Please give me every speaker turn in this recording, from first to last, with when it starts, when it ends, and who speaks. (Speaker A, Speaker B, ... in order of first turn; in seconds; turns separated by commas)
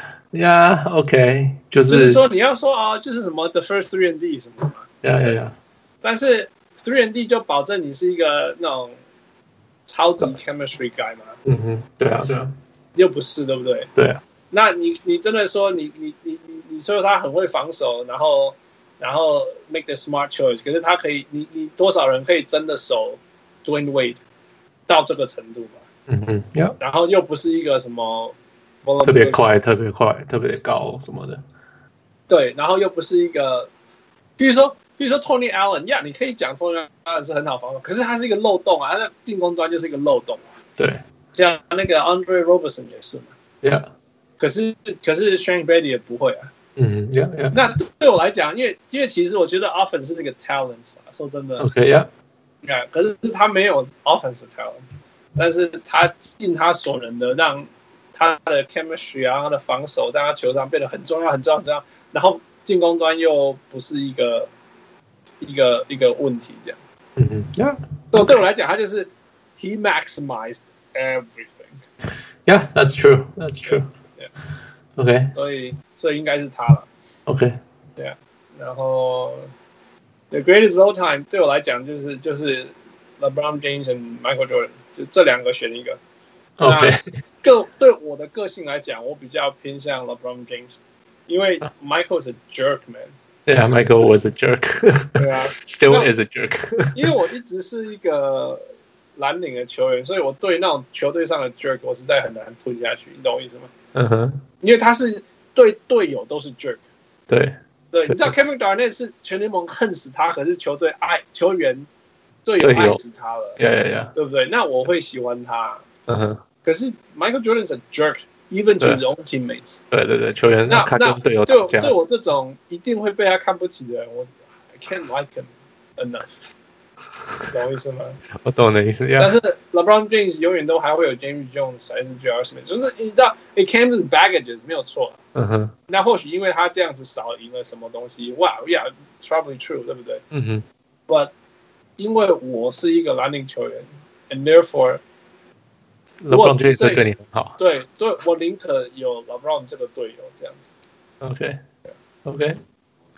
Speaker A: 0.3-2.2, Speaker B: 1.9-4.9, Speaker A: 5.0-5.5, Speaker B: 6.0-9.0, Speaker B: 9.9-11.4, Speaker A: 11.4-12.5, Speaker B: 12.9-13.9, Speaker A: 13.9-14.2, Speaker B: 14.5-24.2, Speaker B: 24.9-25.8, Speaker A: 26.1-26.8, Speaker B: 26.8-29.4, Speaker A: 29.0-31.4, Speaker B: 32.3-33.7, Speaker B: 34.4-40.4, Speaker A: 40.8-41.0, Speaker B: 41.3-43.3, Speaker A: 43.6-43.9, Speaker B: 44.4-46.5, Speaker A: 46.8-47.6, Speaker B: 47.5-51.7, Speaker A: 51.6-52.1, Speaker B: 52.6-54.8, Speaker B: 55.4-64.5, Speaker B: 65.4-66.8, Speaker A: 67.2-68.2, Speaker B: 68.1-71.8, Speaker A: 72.5-73.9, Speaker B: 73.7-74.3, Speaker A: 75.0-75.3, Speaker B: 75.3-76.9, Speaker A: 77.3-77.6, Speaker B: 78.0-79.5, Speaker B: 80.3-86.0, Speaker A: 86.6-87.0, Speaker B: 86.6-90.8, Speaker B: 91.3-93.1, Speaker A: 93.5-97.1, Speaker B: 95.2-96.1, Speaker B: 96.9-103.7, Speaker A: 103.9-104.4, Speaker B: 104.6-106.8, Speaker A: 107.3-107.6, Speaker B: 107.9-111.9, Speaker A: 108.1-108.3, Speaker B: 112.4-113.6, Speaker A: 112.6-113.0, Speaker A: 113.6-114.1, Speaker B: 114.1-115.8, Speaker A: 116.1-116.4, Speaker B: 116.6-119.8, Speaker A: 119.9-122.0, Speaker B: 120.7-126.4, Speaker B: 127.5-128.2, Speaker A: 128.3-129.4, Speaker B: 129.2-135.2, Speaker A: 135.3-135.7, Speaker B: 135.9-140.2, Speaker A: 140.3-140.6, Speaker B: 141.1-141.3, Speaker B: 142.0-145.0, Speaker A: 146.2-147.6, Speaker B: 146.3-147.0, Speaker B: 147.6-150.7, Speaker A: 151.2-151.6, Speaker A: 152.2-152.6